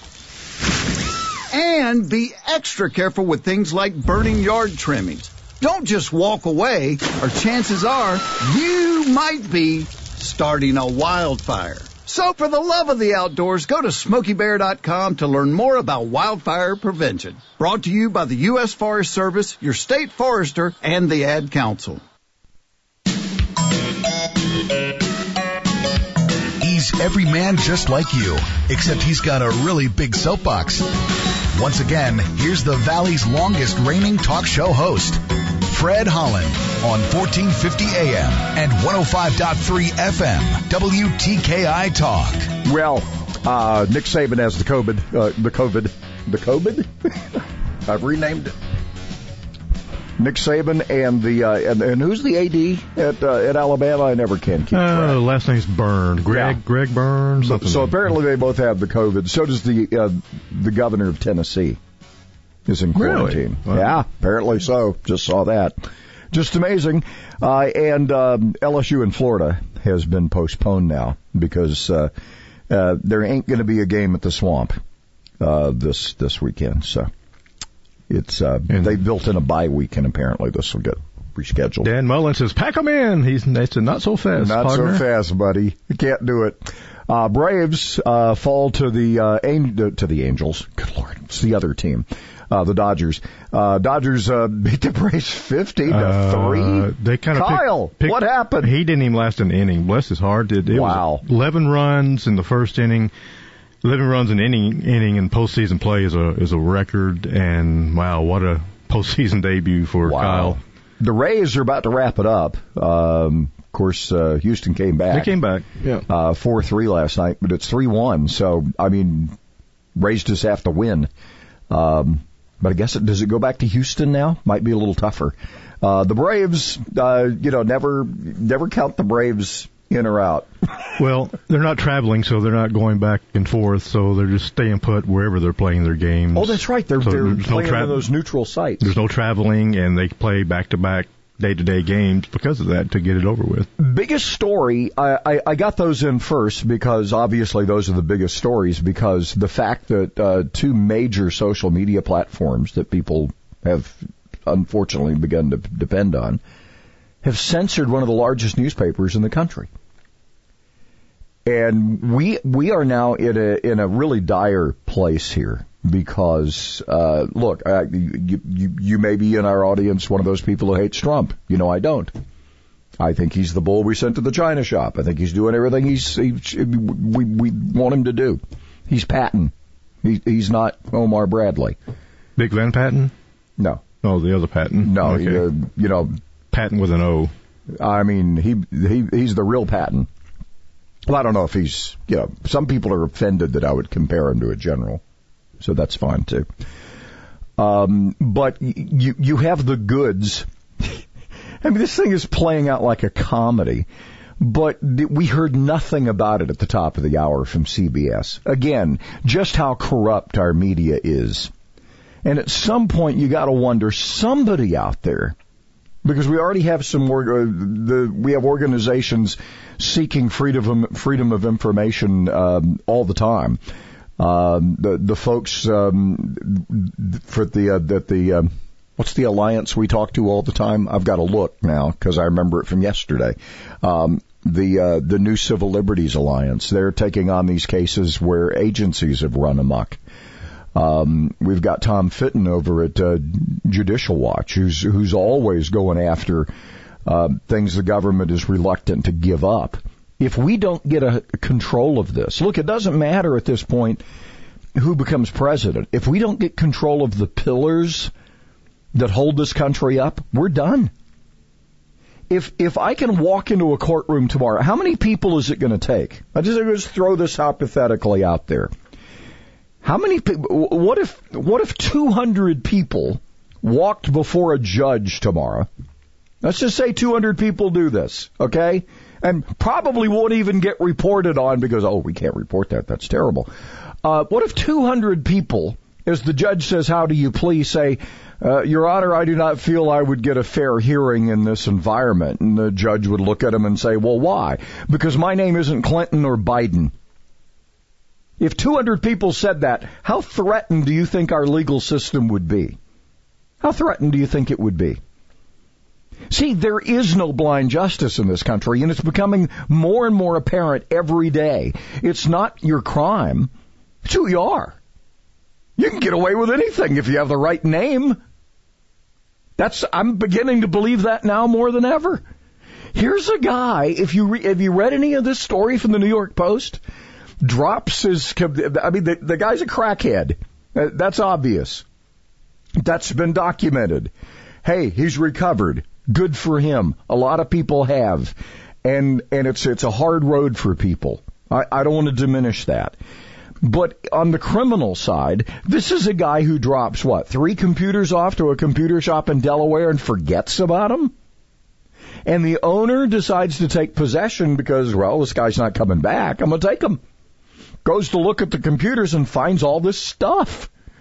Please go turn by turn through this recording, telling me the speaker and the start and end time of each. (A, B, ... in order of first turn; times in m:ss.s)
0:01.5-0:22.0 A
0:26.6-0:30.9 B
0:31.5-0:42.5 B
0:42.6-0:48.5 C
0:50.2-0:55.2 C
0:54.7-0:58.1 D
0:56.3-0:56.6 C
0:57.4-1:01.8 C
1:02.7-1:12.1 C
1:03.0-1:04.0 D
1:12.7-1:14.8 C
1:15.4-1:17.1 C
1:18.1-1:21.9 C
1:18.7-1:19.0 D
1:21.8-1:25.0 D
1:24.4-1:38.7 C
1:35.9-1:43.1 D
1:40.7-1:41.2 C
1:43.8-1:50.6 D
1:50.0-1:55.4 C
1:55.1-1:56.0 D
1:56.1-1:59.4 C
2:00.0-2:01.1 C
2:01.7-2:10.5 C
2:11.0-2:18.0 D
2:16.4-2:18.9 C
2:18.8-2:23.7 D
2:23.8-2:36.4 C
2:37.2-2:39.7 C
2:41.5-2:52.1 C
2:53.0-3:01.8 C
3:02.4-3:03.1 D
3:04.0-3:05.4 D
3:04.8-3:06.2 C
3:06.5-3:07.3 D
3:07.8-3:10.1 C
3:11.1-3:15.0 C
3:15.6-3:16.5 C
3:17.6-3:21.0 C
3:21.6-3:23.9 C
3:24.4-3:31.5 C
3:32.2-3:35.4 C
3:36.0-3:43.6 C
3:44.2-4:00.0 C
4:00.8-4:06.5 C
4:07.0-4:14.0 C
4:14.8-4:18.1 C
4:18.9-4:20.9 C
4:22.3-4:28.7 C
4:29.8-4:35.7 C
4:36.4-4:43.5 C
4:44.0-4:56.9 C
4:58.4-5:02.8 C
5:03.6-5:05.0 C
5:06.3-5:13.5 C
5:14.0-5:14.8 C
5:15.8-5:18.2 C
5:19.6-5:22.2 C
5:22.9-5:26.8 C
5:27.4-5:31.8 C
5:32.8-5:34.1 C
5:34.6-5:43.0 C
5:43.6-5:51.1 C
5:52.3-5:57.0 C
5:57.8-6:00.7 C